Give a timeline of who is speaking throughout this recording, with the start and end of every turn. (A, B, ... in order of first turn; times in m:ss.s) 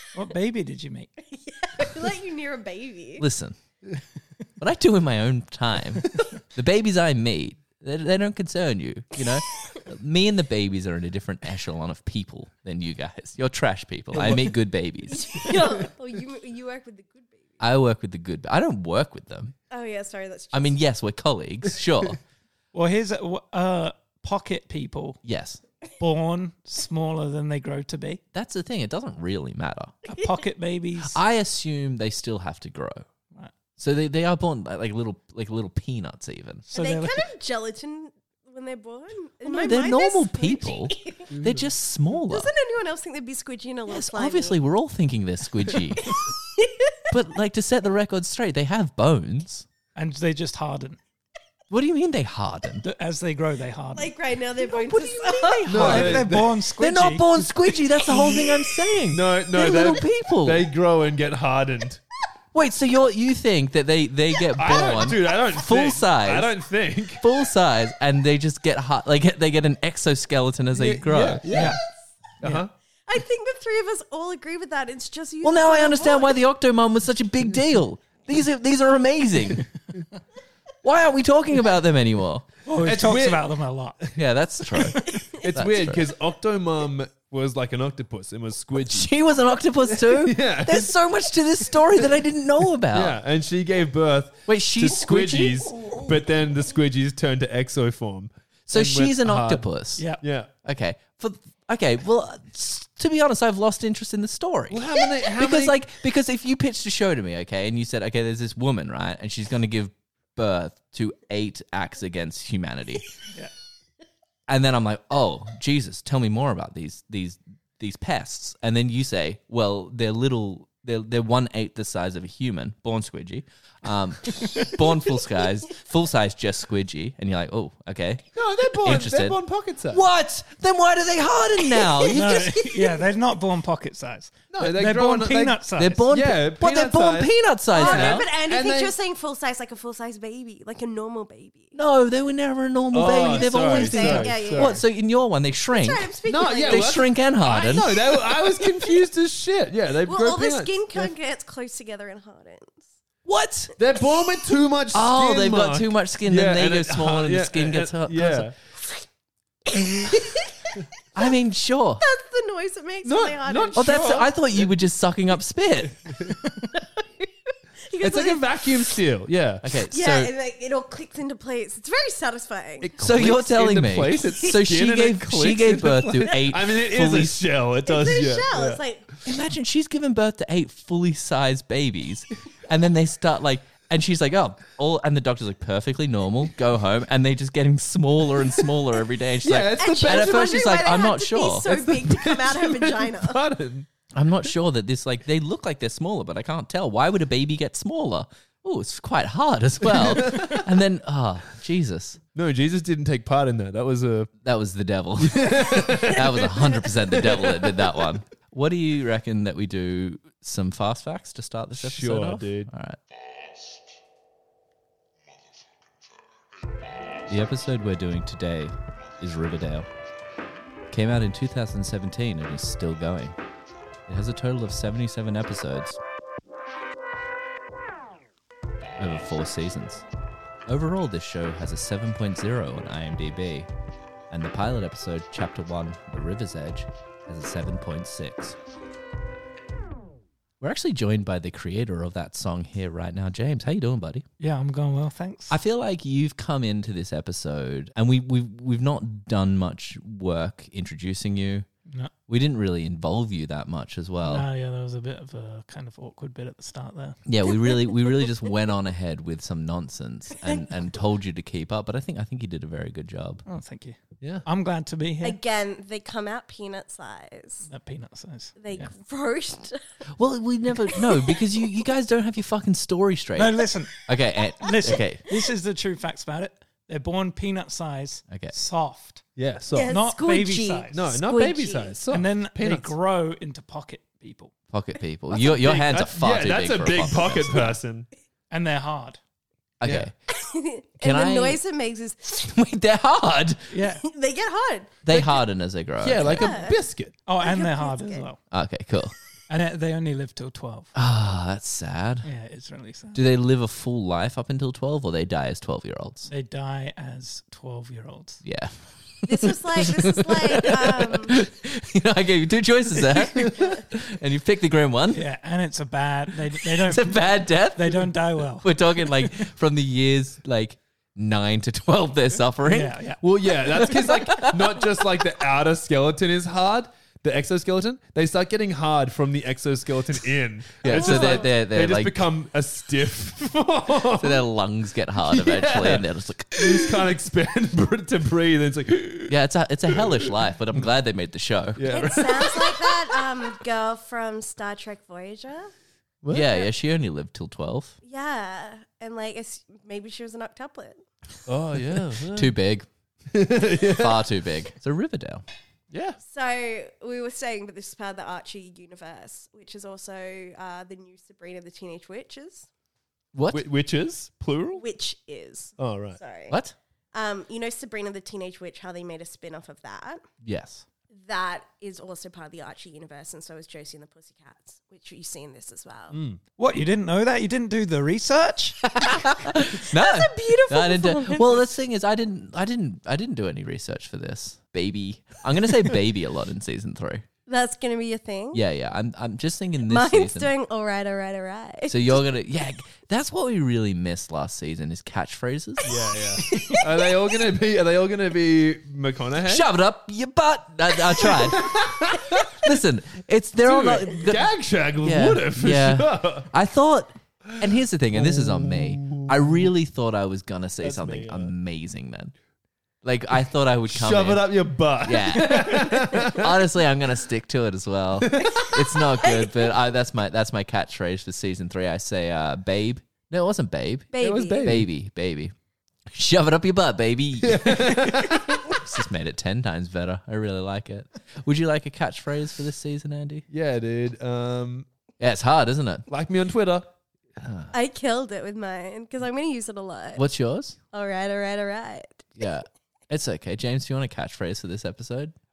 0:00.1-0:01.1 A
0:01.3-0:03.3 B
0:03.2-0:03.6 C
0:04.6-0:15.6 C
0:14.1-0:14.6 D
0:15.1-0:17.4 B
0:17.6-0:19.6 C
0:19.7-0:20.8 B
0:20.5-0:22.2 C
0:22.7-0:25.2 A
0:25.2-0:25.6 C
0:26.0-0:28.2 A
0:28.3-0:30.0 C
0:30.1-0:31.2 A
0:31.0-0:33.1 C
0:33.8-0:36.7 C
0:36.7-0:37.2 A
0:36.7-0:41.3 B
0:39.4-0:42.5 C
0:41.3-0:41.7 D
0:42.3-0:44.6 B
0:43.9-0:46.3 C
0:46.0-0:47.0 B
0:47.1-0:49.7 C
0:50.0-0:51.0 A
0:51.7-0:52.8 C
0:52.8-0:54.1 A
0:54.0-0:56.0 B
0:54.9-1:00.7 C
0:55.7-0:56.6 D
0:55.7-0:57.3 A
0:58.1-0:58.7 B
0:59.1-1:02.0 D
1:02.5-1:06.5 C
1:04.6-1:07.2 D
1:07.2-1:11.4 C
1:10.8-1:11.8 D
1:11.5-1:11.8 A
1:12.4-1:12.7 A
1:12.4-1:12.7 D
1:13.1-1:16.4 B
1:15.4-1:19.7 C
1:20.8-1:22.5 C
1:22.7-1:24.1 A
1:22.8-1:23.4 D
1:24.2-1:26.1 C
1:24.8-1:29.1 D
1:28.9-1:33.2 C
1:29.9-1:30.9 D
1:32.9-1:39.7 D
1:34.5-1:35.8 C
1:38.7-1:40.1 C
1:40.0-1:40.2 A
1:40.2-1:40.5 D
1:40.6-1:53.1 C
1:44.7-1:45.8 D
1:54.5-2:08.2 C
2:08.4-2:10.0 D
2:08.8-2:12.6 C
2:11.8-2:12.9 B
2:12.1-2:16.0 A
2:14.5-2:19.0 D
2:15.8-2:18.3 C
2:17.7-2:21.8 B
2:21.8-2:26.1 C
2:22.9-2:24.8 D
2:23.2-2:24.8 B
2:25.7-2:27.0 B
2:26.3-2:31.1 D
2:26.7-2:28.3 C
2:30.0-2:32.9 B
2:33.2-2:33.7 C
2:33.8-2:38.6 D
2:34.9-2:38.5 C
2:39.7-2:40.8 B
2:41.2-2:42.0 C
2:42.0-2:44.0 B
2:43.0-2:44.7 D
2:43.8-2:46.0 C
2:46.0-2:46.4 D
2:46.7-2:48.9 B
2:48.0-2:49.7 D
2:49.6-2:50.3 C
2:49.9-2:52.9 B
2:52.8-2:58.8 D
2:53.0-2:57.4 C
2:57.8-2:59.1 B
2:59.2-3:11.8 C
3:09.4-3:10.8 D
3:09.8-3:13.4 B
3:11.7-3:13.9 D
3:14.1-3:22.2 C
3:19.9-3:20.6 D
3:22.4-3:24.3 D
3:24.4-3:33.0 C
3:25.2-3:27.8 D
3:31.8-3:32.7 D
3:37.3-3:39.9 C
3:40.9-3:43.4 C
3:44.1-3:46.0 C
3:49.0-3:50.0 C
3:50.7-3:53.7 C
3:54.3-3:58.6 C
4:00.6-4:04.2 C
4:04.4-4:05.6 A
4:05.5-4:11.7 C
4:11.9-4:12.1 A
4:12.3-4:14.5 C
4:14.2-4:17.2 A
4:17.3-4:23.4 C
4:23.5-4:25.4 A
4:25.2-4:27.7 B
4:27.7-4:28.9 A
4:28.6-4:29.8 B
4:30.1-4:35.2 C
4:30.9-4:31.4 B
4:33.4-4:34.1 A
4:34.6-4:39.2 A
4:39.4-4:40.0 D
4:39.7-4:42.0 B
4:39.9-4:41.0 A
4:40.9-4:42.9 D
4:42.1-4:44.5 A
4:44.7-4:47.8 C
4:45.3-4:48.1 D
4:48.5-4:49.2 A
4:49.8-4:50.1 C
4:49.8-4:50.1 D
4:50.3-4:52.4 B
4:51.0-4:51.6 C
4:52.3-4:53.7 C
4:53.7-4:54.0 A
4:54.0-4:55.0 B
4:55.0-4:56.6 C
4:55.1-4:55.4 D
4:56.0-4:57.2 D
4:56.2-4:56.8 B
4:57.3-4:58.4 A
4:57.4-4:58.3 B
4:58.5-4:59.2 C
4:59.5-5:00.9 A
5:01.0-5:02.3 C
5:02.2-5:03.2 A
5:03.1-5:06.3 C
5:06.3-5:08.4 A
5:08.4-5:15.2 C
5:09.3-5:11.4 B
5:13.4-5:13.7 D
5:15.1-5:19.5 A
5:16.6-5:23.0 C
5:22.7-5:23.2 A
5:23.2-5:34.5 D
5:23.7-5:24.9 C
5:30.8-5:32.3 C
5:30.9-5:31.5 B
5:34.2-5:37.1 C
5:35.2-5:39.4 D
5:39.3-5:42.1 C
5:39.9-5:40.4 D
5:41.8-5:43.3 D
5:41.9-5:45.7 B
5:46.2-5:46.6 D
5:46.3-5:48.0 C
5:48.0-5:51.0 B
5:51.5-5:52.5 D
5:52.3-5:52.9 C
5:53.3-5:54.2 D
5:53.8-5:55.4 C
5:55.9-5:56.2 D
5:56.2-6:02.7 B
6:03.3-6:03.6 C
6:03.5-6:04.8 D
6:04.8-6:06.6 B
6:05.8-6:06.2 D
6:06.5-6:06.8 C
6:07.1-6:10.2 B
6:10.4-6:10.8 C
6:11.1-6:16.2 B
6:16.1-6:16.4 D
6:16.6-6:18.8 A
6:18.9-6:27.2 C
6:19.7-6:21.6 B
6:27.5-6:28.6 B
6:28.5-6:30.5 C
6:29.9-6:32.2 B
6:31.9-6:35.9 C
6:35.8-6:39.7 D
6:36.5-6:36.8 B
6:39.5-6:52.3 C
6:41.2-6:42.7 D
6:43.6-6:46.5 D
6:47.6-6:49.7 D
6:50.8-6:51.5 D
6:53.0-7:05.5 C
6:53.9-6:56.6 D
6:58.2-6:58.6 D
6:58.5-6:59.5 B
7:04.1-7:04.8 B
7:04.2-7:04.9 D
7:06.1-7:13.5 C
7:07.4-7:08.8 D
7:13.5-7:14.9 D
7:15.2-7:16.1 C
7:16.1-7:16.9 D
7:17.4-7:17.7 C
7:17.7-7:20.2 B
7:20.2-7:20.8 C
7:20.9-7:22.3 B
7:22.4-7:25.3 C